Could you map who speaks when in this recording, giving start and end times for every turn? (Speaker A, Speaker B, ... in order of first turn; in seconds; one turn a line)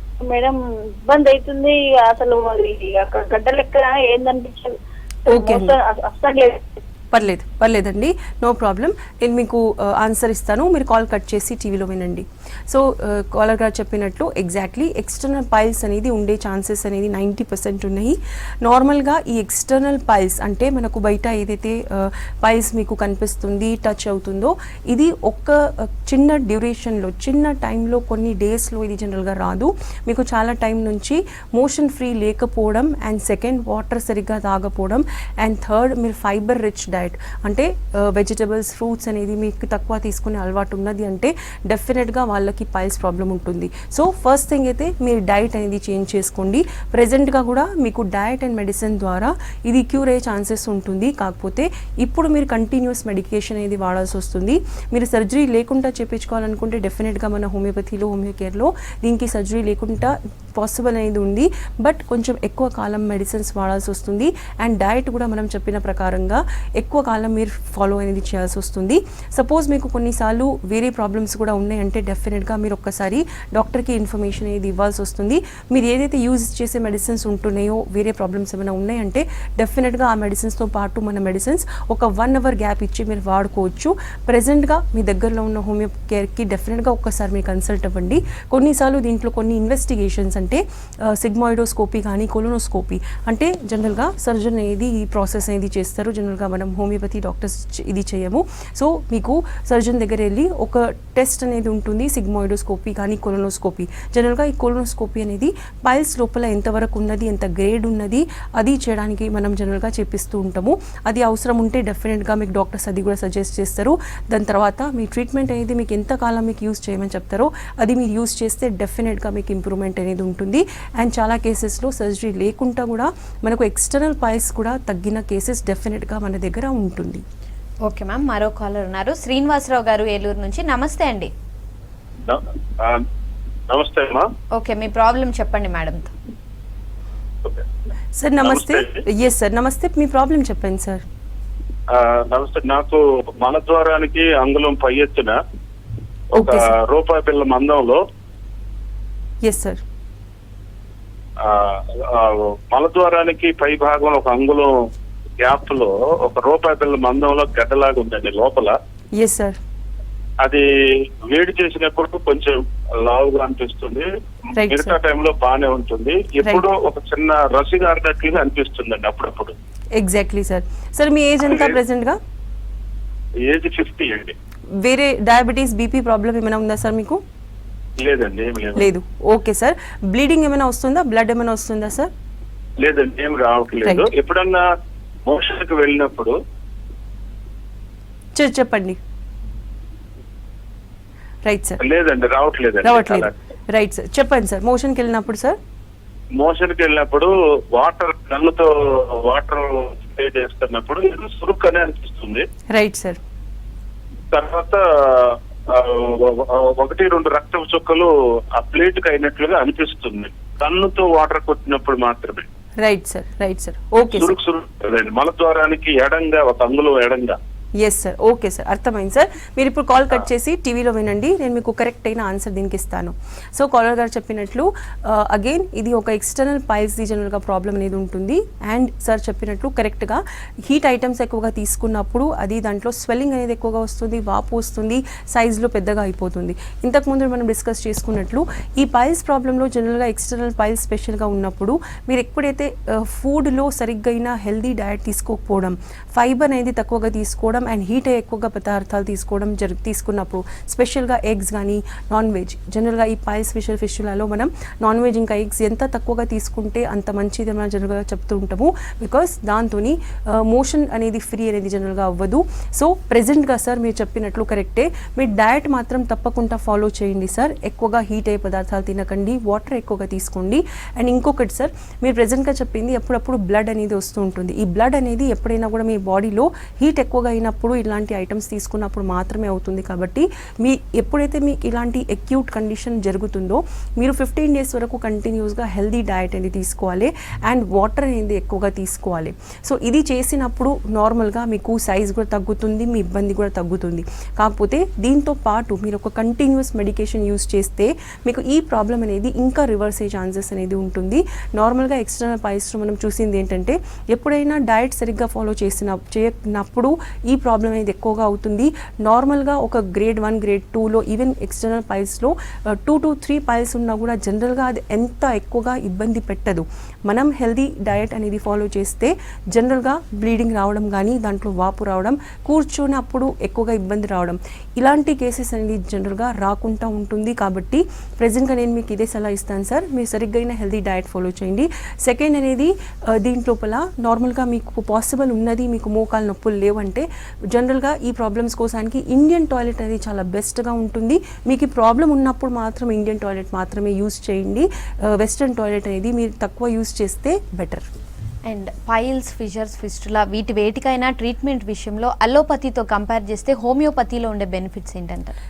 Speaker A: 0.2-4.8
Speaker A: 5.3-6.7
Speaker B: 5.3-5.8
Speaker B: 7.1-127.2
Speaker C: 127.8-131.3
Speaker D: 132.2-133.1
Speaker D: 133.7-134.3
Speaker C: 134.5-136.1
Speaker B: 138.2-141.0
Speaker D: 138.4-139.0
Speaker D: 141.9-145.3
Speaker B: 146.3-146.7
Speaker D: 146.4-148.0
Speaker B: 149.4-149.8
Speaker D: 151.4-154.7
Speaker D: 155.4-158.7
Speaker B: 159.2-159.6
Speaker D: 160.4-164.1
Speaker B: 164.6-164.9
Speaker D: 164.7-169.5
Speaker B: 169.9-172.2
Speaker D: 173.4-174.3
Speaker B: 174.8-177.2
Speaker D: 178.0-178.9
Speaker B: 178.8-182.1
Speaker D: 182.8-184.6
Speaker B: 183.8-184.1
Speaker D: 185.2-186.3
Speaker B: 188.3-189.0
Speaker B: 191.4-191.8
Speaker D: 191.8-193.3
Speaker B: 192.8-195.6
Speaker D: 196.4-202.4
Speaker B: 202.7-203.2
Speaker D: 204.3-212.5
Speaker B: 212.8-214.3
Speaker D: 214.1-217.4
Speaker B: 217.8-347.8
Speaker C: 348.4-355.4